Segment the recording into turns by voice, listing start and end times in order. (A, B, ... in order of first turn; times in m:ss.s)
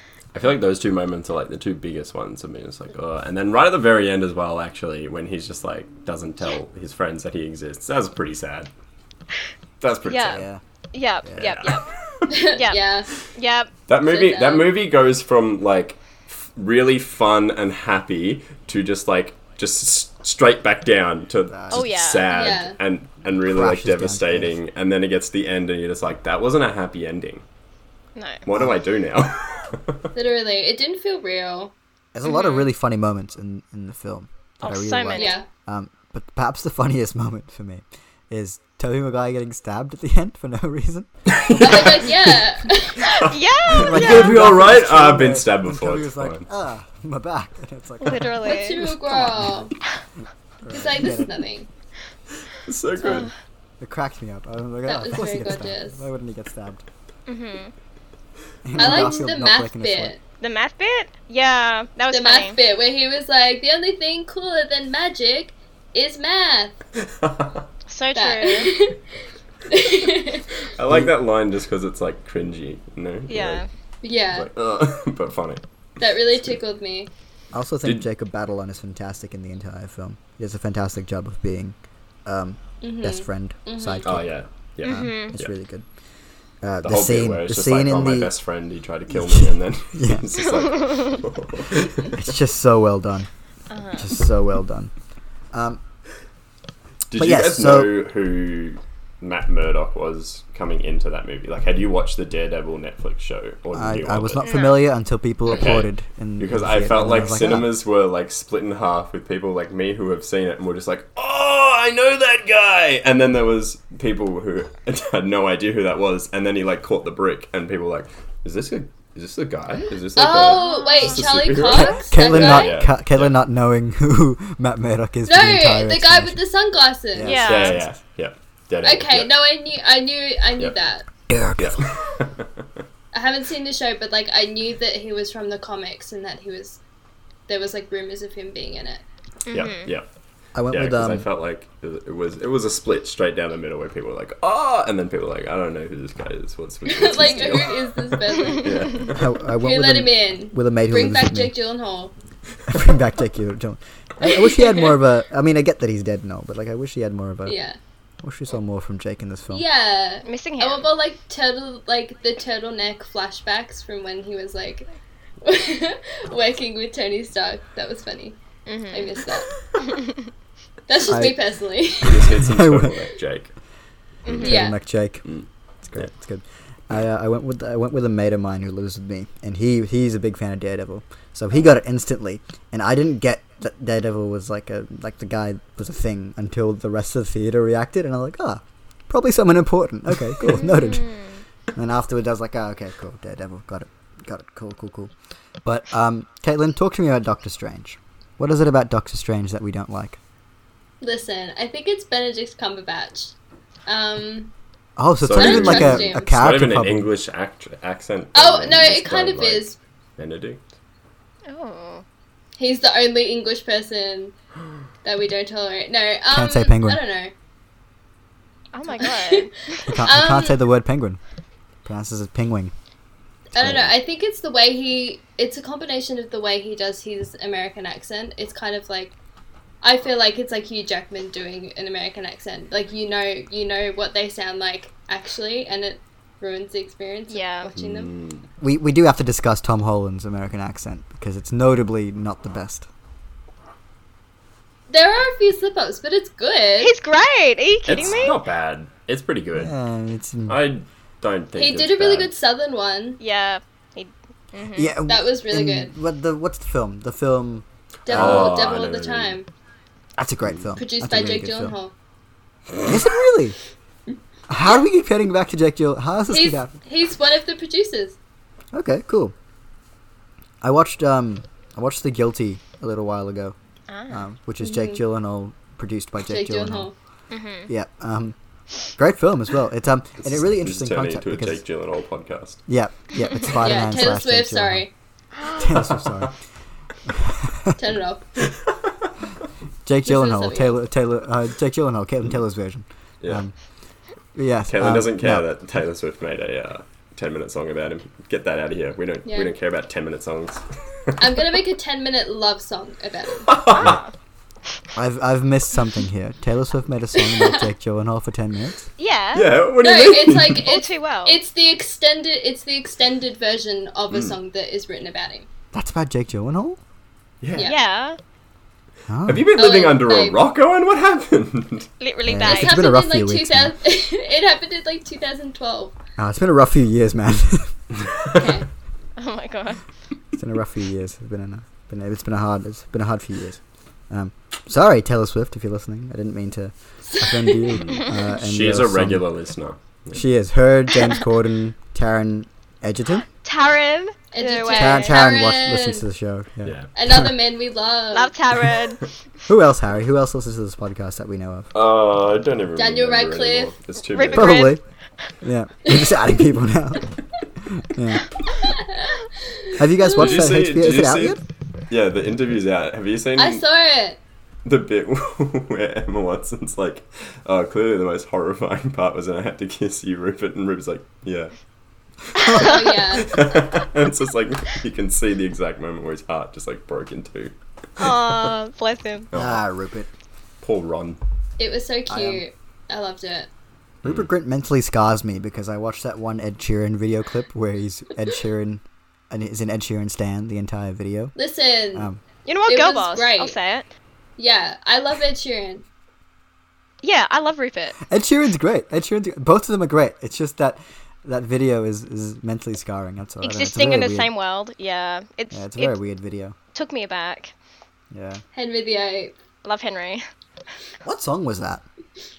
0:00.3-0:08.7 A
0:09.8-0:10.5 A
0:10.0-0:11.9 B
0:10.3-0:10.6 C
0:11.2-0:11.5 C
0:11.4-0:12.4 A
0:12.3-0:13.1 D
0:12.5-0:13.7 B
0:13.9-0:27.4 A
0:14.0-0:14.7 D
0:21.5-0:21.9 C
0:21.7-0:22.6 B
0:22.3-0:22.8 D
0:23.4-0:24.6 C
0:28.2-0:28.4 B
0:28.4-0:30.1 A
0:28.5-0:28.8 C
0:30.1-0:31.7 D
0:32.1-0:41.1 C
0:32.2-0:32.7 B
0:34.6-0:35.4 B
0:35.2-0:35.5 D
0:41.3-0:42.3 A
0:41.6-0:43.1 D
0:43.0-0:46.4 A
0:43.0-0:44.6 B
0:43.7-0:49.7 C
0:48.0-0:48.8 B
0:48.4-0:49.7 D
0:50.6-0:51.4 C
0:50.7-0:51.7 D
0:52.5-0:53.3 A
0:53.0-0:53.3 B
0:53.8-0:56.8 C
0:54.8-0:56.0 D
0:57.3-0:57.7 B
0:58.6-1:00.1 C
0:58.8-1:00.2 D
1:00.4-1:02.6 B
1:02.1-1:06.8 D
1:07.0-1:07.6 A
1:07.9-1:08.8 B
1:08.1-1:09.0 D
1:09.7-1:10.6 D
1:10.7-1:13.6 A
1:10.9-1:11.1 C
1:13.3-1:13.7 B
1:14.0-1:14.5 D
1:14.3-1:15.6 A
1:16.0-1:17.1 D
1:17.5-1:24.2 C
1:22.8-1:24.2 D
1:24.0-1:25.5 A
1:24.8-1:25.4 B
1:24.8-1:25.8 C
1:26.6-1:28.3 C
1:26.8-1:32.2 A
1:29.1-1:30.3 C
1:30.7-1:31.1 B
1:32.1-1:33.3 C
1:33.7-1:34.1 B
1:33.9-1:34.9 C
1:35.5-1:35.8 C
1:37.1-1:44.5 A
1:37.1-1:38.0 C
1:43.7-1:47.7 C
1:44.4-1:44.8 B
1:45.5-2:03.4 A
2:00.2-2:02.8 D
2:00.5-2:01.3 B
2:02.0-2:06.4 C
2:05.2-2:07.4 D
2:07.1-2:07.9 C
2:07.2-2:07.8 B
2:07.4-2:09.3 A
2:08.8-2:11.0 D
2:11.3-2:11.9 C
2:11.6-2:12.6 A
2:13.1-2:16.8 D
2:17.5-2:19.0 D
2:19.5-2:19.9 B
2:19.5-2:20.0 A
2:20.5-2:21.3 C
2:20.7-2:29.3 A
2:26.8-2:32.1 D
2:29.1-2:31.5 C
2:32.7-2:37.6 C
2:34.6-2:34.9 D
2:37.4-2:37.8 D
2:38.2-2:39.6 C
2:39.5-2:44.9 D
2:40.2-2:40.9 B
2:45.4-2:49.6 D
2:48.6-2:49.1 B
2:49.8-2:50.3 B
2:50.9-2:52.4 D
2:51.1-2:51.4 C
2:52.0-2:53.1 C
2:52.0-2:53.5 A
2:54.2-2:54.6 B
2:54.2-2:54.5 A
2:54.4-2:54.8 D
2:54.4-3:11.1 C
2:55.2-2:56.1 A
3:10.4-3:11.4 B
3:11.7-3:15.1 C
3:15.6-3:20.2 C
3:21.0-3:23.3 D
3:23.8-3:24.5 D
3:25.0-3:27.1 C
3:25.2-3:30.6 A
3:25.3-3:26.3 D
3:28.3-3:29.8 D
3:31.5-3:32.0 B
3:32.6-3:34.3 D
3:35.0-3:37.3 D
3:36.3-3:37.0 C
3:38.7-3:39.9 B
3:38.9-3:40.6 D
3:39.9-3:41.2 C
3:41.8-3:42.7 C
3:43.5-3:49.1 D
3:43.6-3:43.8 C
3:49.8-3:58.1 D
3:57.3-3:57.7 B
3:57.8-3:58.4 A
3:58.6-4:02.9 C
4:04.9-4:06.9 D
4:06.8-4:08.4 B
4:07.8-4:09.7 A
4:09.5-4:10.6 C
4:10.5-4:12.3 A
4:11.6-4:13.2 D
4:13.2-4:15.0 B
4:14.7-4:18.6 C
4:15.1-4:15.9 D
4:18.0-4:19.5 D
4:18.1-4:19.4 A
4:20.2-4:21.8 C
4:20.8-4:21.9 D
4:22.8-4:23.6 C
4:24.5-4:26.7 C
4:26.3-4:28.2 D
4:28.7-4:29.3 C
4:30.6-4:33.5 C
4:33.9-4:34.2 B
4:34.1-4:36.9 C
4:34.6-4:35.0 D
4:36.3-4:36.9 D
4:37.3-4:37.7 B
4:37.7-4:38.4 C
4:38.9-4:41.6 C
4:40.2-4:42.6 A
4:42.7-4:44.8 C
4:43.2-4:43.5 B
4:43.5-4:44.9 D
4:45.3-4:45.7 B
4:45.5-4:46.3 C
4:45.8-4:46.2 A
4:47.0-4:47.8 C
4:47.8-4:48.3 D
4:49.8-4:53.5 C
4:50.0-4:50.8 D
4:54.3-4:55.4 C
4:54.7-5:01.5 A
4:59.2-4:59.5 D
5:01.2-5:03.5 D
5:03.4-5:04.0 A
5:03.7-5:04.1 B
5:04.9-5:08.9 C
5:07.2-5:07.7 D
5:09.0-5:09.5 B
5:09.3-5:10.7 A
5:09.8-5:15.5 D
5:10.6-5:11.4 B
5:15.7-5:16.8 C
5:17.4-5:17.7 A
5:17.6-5:18.2 B
5:19.1-5:19.5 C
5:19.2-5:21.9 A
5:19.5-5:20.4 D
5:22.0-5:22.8 B
5:22.2-5:23.8 C
5:22.4-5:26.0 D
5:26.2-5:28.1 C
5:28.3-5:28.7 D
5:29.2-5:29.8 B
5:30.3-5:39.2 C
5:37.1-5:37.8 D
5:37.7-5:40.2 A
5:40.1-5:43.3 C
5:43.4-5:45.2 B
5:44.3-5:46.0 D
5:44.7-5:47.3 C
5:46.6-5:46.9 A
5:46.9-5:48.3 D
5:48.1-5:49.1 B
5:49.5-5:51.7 C
5:51.7-5:54.7 A
5:52.8-5:53.7 D
5:54.1-5:54.8 B
5:54.3-5:54.8 C
5:55.4-5:57.1 C
5:55.8-5:56.3 D
5:57.6-5:58.3 C
5:58.6-6:00.4 D
5:59.8-6:01.4 C
6:00.1-6:03.6 A
6:03.4-6:04.2 D
6:04.6-6:11.5 A
6:12.4-6:13.0 B
6:12.5-6:13.4 D
6:12.5-6:18.5 A
6:18.0-6:19.3 B
6:19.3-6:19.6 A
6:19.3-6:20.1 C
6:20.6-6:21.2 A
6:21.6-6:23.5 D
6:22.1-6:22.4 C
6:24.0-6:31.3 C
6:31.4-6:32.1 D
6:31.9-6:32.2 C
6:32.4-6:33.9 B
6:32.7-6:33.6 D
6:34.4-6:35.8 D
6:37.0-6:38.0 B
6:38.1-6:44.3 C
6:43.4-6:46.0 B
6:45.5-6:46.6 C
6:46.7-6:47.5 B
6:48.1-6:48.4 C
6:48.5-6:49.3 D
6:49.6-6:50.2 B
6:51.0-6:51.8 C